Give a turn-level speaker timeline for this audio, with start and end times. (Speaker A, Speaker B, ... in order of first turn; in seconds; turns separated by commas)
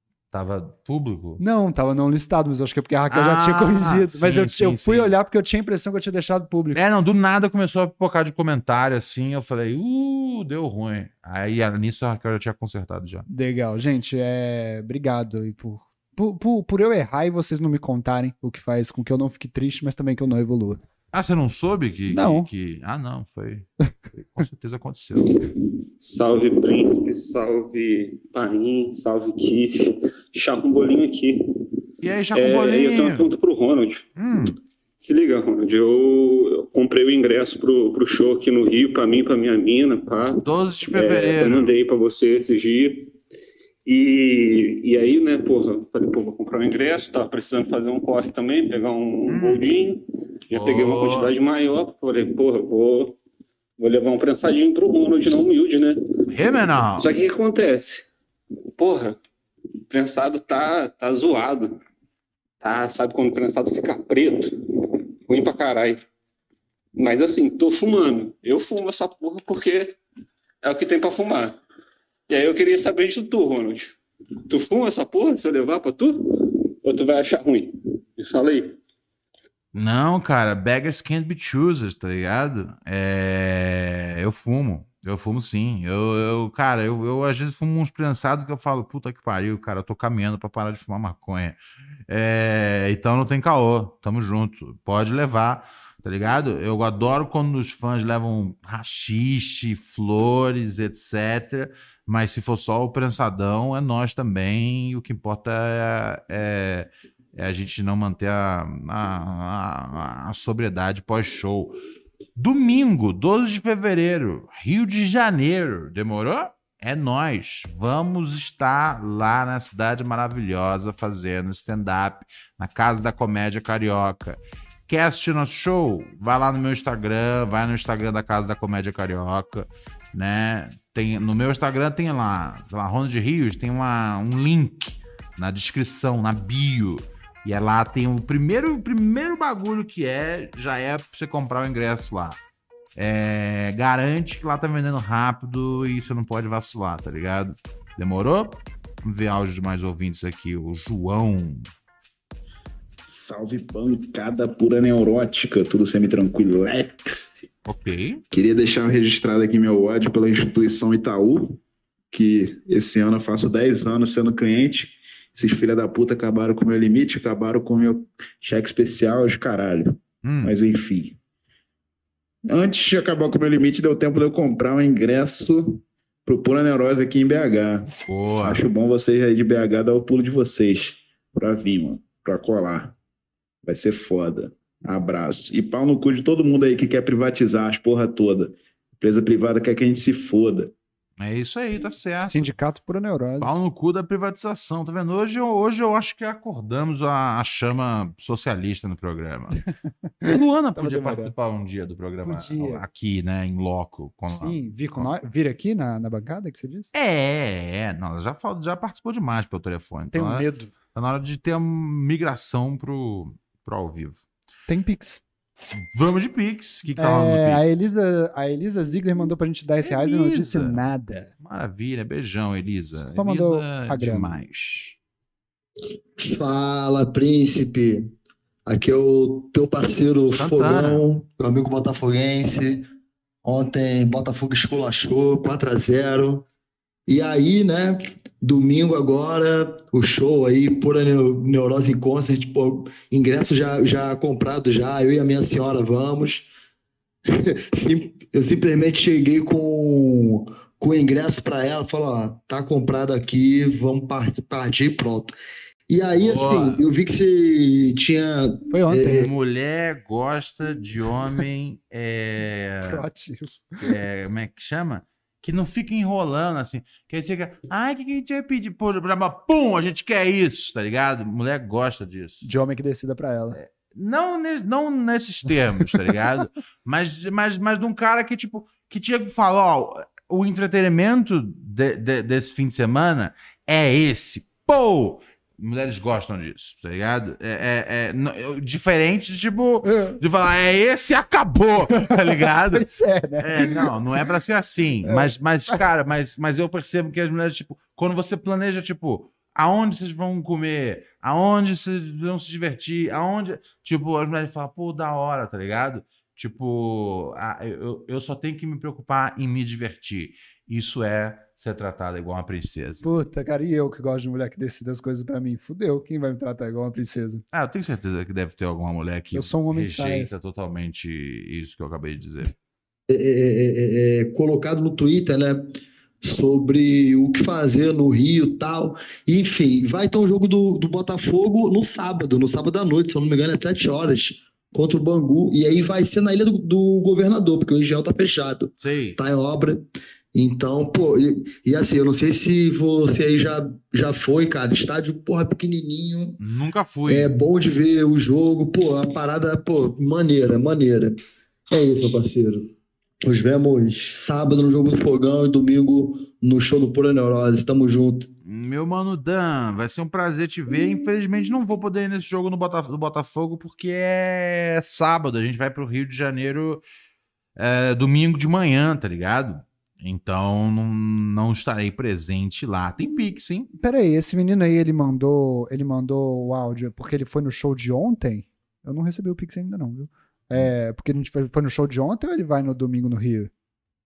Speaker A: 0.3-1.4, Speaker B: 1.4-6.8, Speaker A: 3.1-5.1, Speaker A: 6.7-13.2, Speaker B: 13.3-20.8, Speaker A: 21.1-25.3, Speaker B: 22.1-22.5, Speaker C: 26.0-31.4, Speaker A: 32.0-33.3, Speaker C: 32.3-34.1, Speaker A: 34.2-34.5, Speaker C: 35.0-43.1, Speaker A: 40.4-41.7, Speaker C: 43.9-53.2, Speaker A: 49.3-49.6, Speaker A: 50.5-51.3, Speaker C: 53.8-56.3, Speaker A: 56.3-57.1, Speaker C: 57.0-58.1, Speaker C: 58.8-59.2, Speaker C: 59.9-61.7, Speaker C: 62.6-64.5, Speaker C: 65.3-66.0, Speaker C: 67.0-70.0, Speaker C: 70.6-71.6, Speaker C: 72.3-78.8, Speaker A: 79.7-111.8, Speaker A: 112.3-142.4, Speaker A: 142.9-151.7, Speaker D: 153.1-157.5, Speaker A: 157.7-158.2, Speaker D: 158.3-161.6, Speaker D: 162.1-171.2, Speaker A: 170.2-170.5, Speaker D: 172.4-182.9, Speaker A: 178.0-178.6, Speaker D: 183.6-190.7, Speaker A: 191.2-192.5, Speaker B: 192.2-193.5, Speaker A: 193.4-199.6, Speaker B: 200.2-201.3, Speaker A: 200.2-205.1, Speaker B: 202.2-202.8, Speaker B: 204.3-206.9, Speaker A: 206.9-214.2, Speaker B: 210.1-210.7, Speaker B: 214.7-215.2, Speaker A: 215.7-217.8, Speaker B: 217.0-221.3, Speaker A: 219.8-220.8, Speaker A: 221.4-225.0, Speaker B: 223.2-224.3, Speaker E: 226.2-228.1, Speaker E: 228.7-232.8, Speaker A: 230.3-231.0, Speaker E: 233.4-236.4, Speaker E: 237.1-246.5, Speaker E: 247.2-255.3, Speaker E: 255.9-259.3, Speaker A: 256.1-256.8, Speaker B: 258.7-259.1, Speaker A: 259.0-263.1, Speaker B: 262.8-263.9, Speaker A: 263.8-272.5, Speaker B: 272.4-273.6, Speaker A: 273.5-292.9, Speaker B: 289.8-290.2, Speaker B: 291.9-293.9, Speaker A: 293.4-313.0, Speaker B: 295.0-295.8, Speaker B: 313.0-317.4, Speaker A: 317.5-322.5, Speaker B: 319.3-320.4, Speaker E: 323.1-346.4, Speaker A: 338.8-339.2, Speaker A: 346.4-347.3, Speaker E: 347.1-352.7, Speaker E: 353.2-358.3, Speaker A: 358.4-366.8, Speaker A: 367.6-373.7, Speaker B: 373.8-383.5